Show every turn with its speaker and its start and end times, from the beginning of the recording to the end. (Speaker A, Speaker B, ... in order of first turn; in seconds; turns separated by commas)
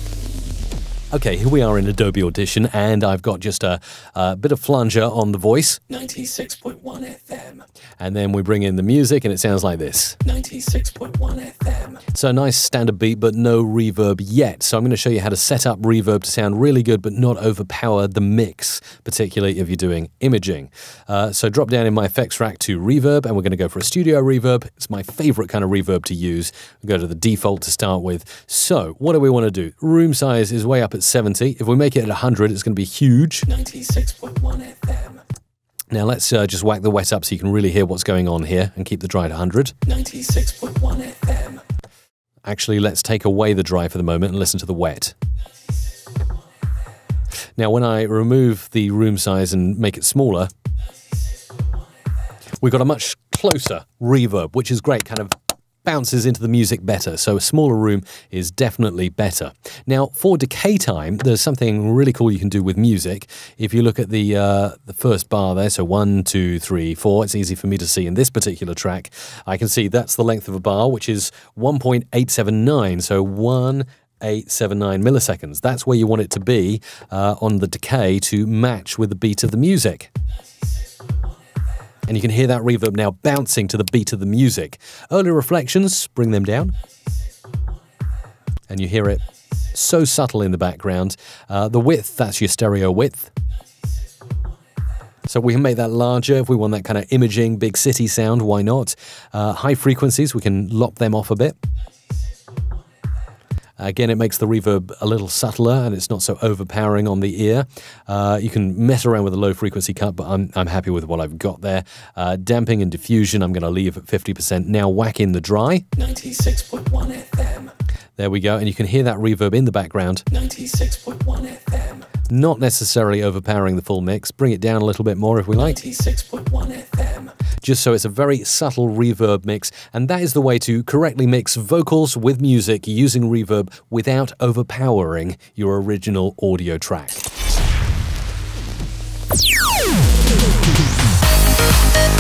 Speaker A: 1.1-6.0, Speaker B: 6.1-7.5, Speaker A: 8.0-10.3, Speaker B: 10.5-11.8, Speaker A: 11.9-33.6, Speaker B: 33.9-34.6, Speaker A: 35.9-39.8, Speaker B: 40.1-41.5, Speaker A: 42.5-45.1, Speaker A: 47.6-50.5, Speaker A: 52.6-80.1, Speaker A: 82.1-86.7, Speaker A: 88.7-89.2, Speaker A: 89.7-93.3, Speaker A: 95.3-101.6, Speaker A: 103.8-116.0, Speaker B: 116.2-117.5, Speaker A: 118.2-120.4, Speaker B: 120.6-121.8, Speaker A: 122.3-125.9, Speaker B: 126.0-127.2, Speaker A: 127.6-137.2